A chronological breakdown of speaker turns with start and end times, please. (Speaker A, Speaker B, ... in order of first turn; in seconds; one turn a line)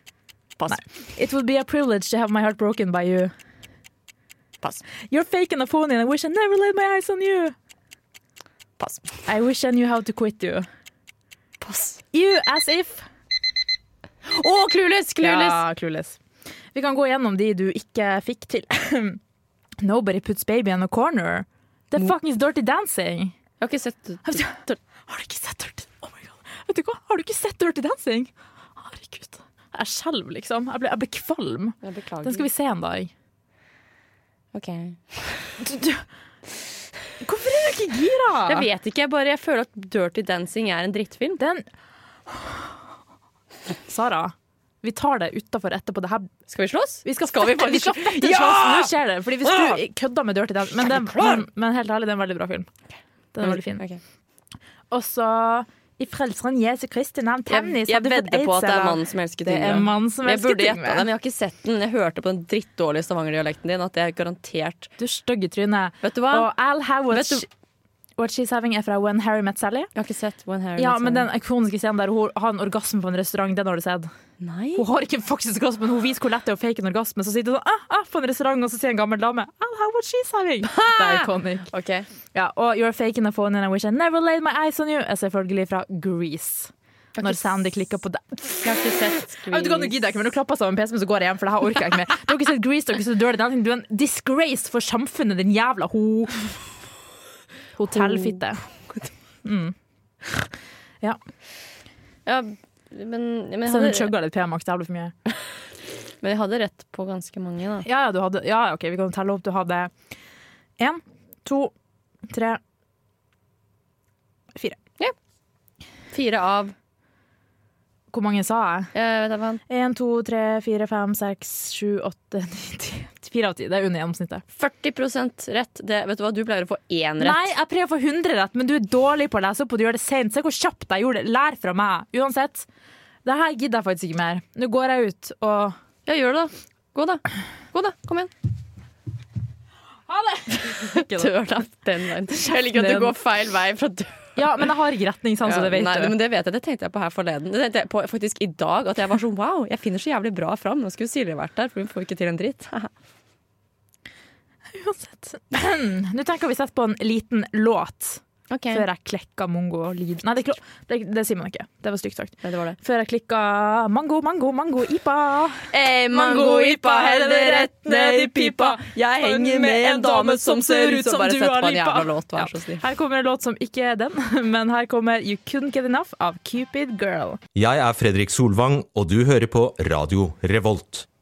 Speaker A: 0.7-3.3
Speaker A: 5.1-7.5
Speaker B: 8.8-9.2
Speaker A: 9.3-10.7
Speaker B: 11.6-12.0
Speaker A: 12.1-13.1
Speaker B: 14.2-15.6
Speaker A: 15.2-16.2
Speaker A: 16.7-19.2
Speaker A: 19.8-23.4
Speaker B: 23.6-24.8
Speaker A: 24.3-24.6
Speaker A: 25.1-33.1
Speaker B: 31.8-32.5
Speaker B: 34.5-35.6
Speaker A: 35.6-36.0
Speaker A: 37.2-38.6
Speaker B: 38.5-41.4
Speaker A: 41.4-41.6
Speaker A: 42.3-42.7
Speaker A: 43.9-46.3
Speaker B: 46.5-49.8
Speaker A: 47.0-52.7
Speaker B: 50.8-51.4
Speaker A: 53.3-53.8
Speaker B: 53.4-54.0
Speaker A: 54.9-61.1
Speaker B: 57.5-64.9
Speaker A: 65.0-67.5
Speaker B: 66.0-66.5
Speaker B: 67.1-67.5
Speaker A: 68.2-69.9
Speaker B: 70.0-71.3
Speaker A: 70.8-74.1
Speaker B: 74.4-74.8
Speaker A: 74.8-81.7
Speaker B: 80.6-82.1
Speaker A: 82.3-88.7
Speaker B: 87.2-87.6
Speaker B: 88.6-90.0
Speaker A: 89.5-96.5
Speaker A: 97.8-98.6
Speaker B: 97.9-99.1
Speaker A: 99.5-99.8
Speaker B: 102.3-104.1
Speaker A: 103.7-105.1
Speaker B: 106.2-107.9
Speaker A: 107.8-109.9
Speaker A: 110.8-111.7
Speaker A: 112.3-112.6
Speaker B: 116.1-116.8
Speaker A: 118.1-118.9
Speaker B: 118.9-119.6
Speaker A: 119.7-124.4
Speaker B: 124.5-127.5
Speaker A: 127.2-132.7
Speaker A: 133.2-135.8
Speaker B: 136.1-138.3
Speaker A: 140.1-141.3
Speaker B: 140.5-144.4
Speaker A: 142.7-143.1
Speaker A: 144.4-146.1
Speaker B: 145.4-152.9
Speaker A: 154.7-177.4
Speaker B: 158.5-158.8
Speaker B: 162.4-162.8
Speaker B: 165.7-172.8
Speaker C: 177.6-181.1